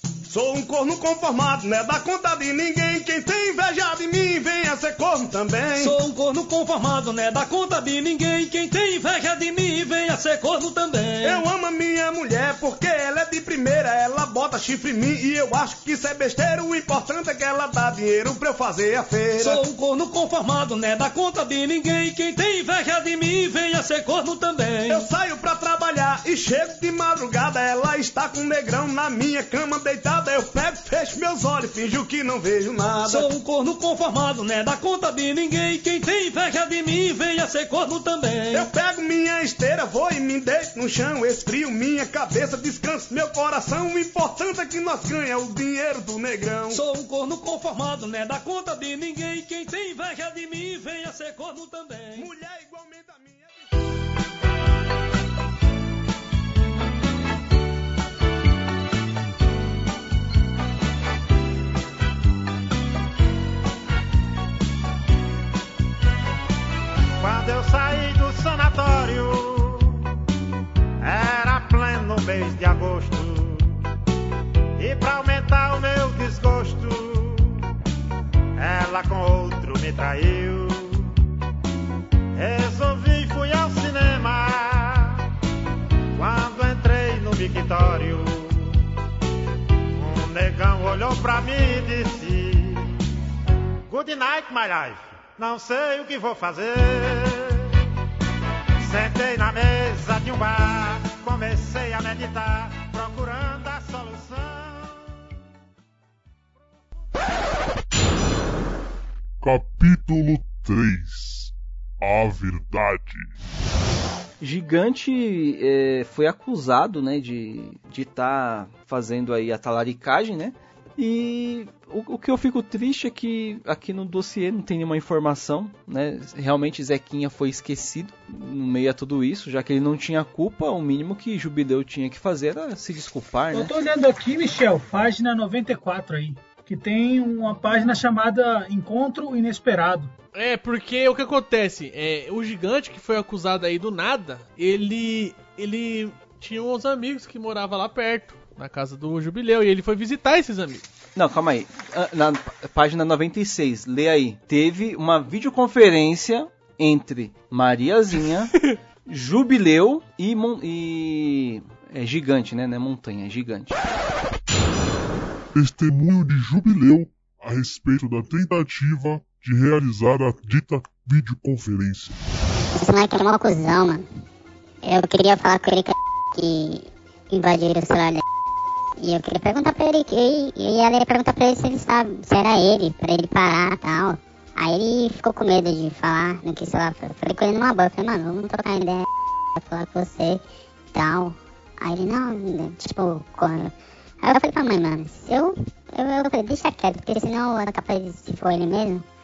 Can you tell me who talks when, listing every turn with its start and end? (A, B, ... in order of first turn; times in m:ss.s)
0:00.3-0:06.0 A
0:05.8-0:11.4 B
0:11.2-0:19.6 A
0:19.4-0:25.0 B
0:24.9-0:33.3 A
0:33.0-0:38.7 B
0:38.5-0:46.8 A
0:46.7-0:52.3 B
0:52.2-0:53.6 A
1:07.2-1:10.1 C
1:11.0-1:13.8 C
1:14.8-1:17.6 C
1:18.6-1:21.1 C
1:22.4-1:25.2 C
1:26.2-1:28.8 C
1:30.0-1:32.9 C
1:33.9-1:37.7 C
1:38.8-1:45.0 C
1:49.4-1:53.4 D
1:54.4-2:13.7 E
2:13.5-2:20.1 F
2:20.3-2:30.8 G
2:31.2-2:38.5 E
2:39.1-2:43.8 E
2:45.5-2:52.2 D
2:52.8-2:54.1 H
2:54.8-2:58.2 H
2:59.0-3:09.0 H
3:09.6-3:10.4 H
3:10.9-3:13.7 H
3:14.2-3:19.0 H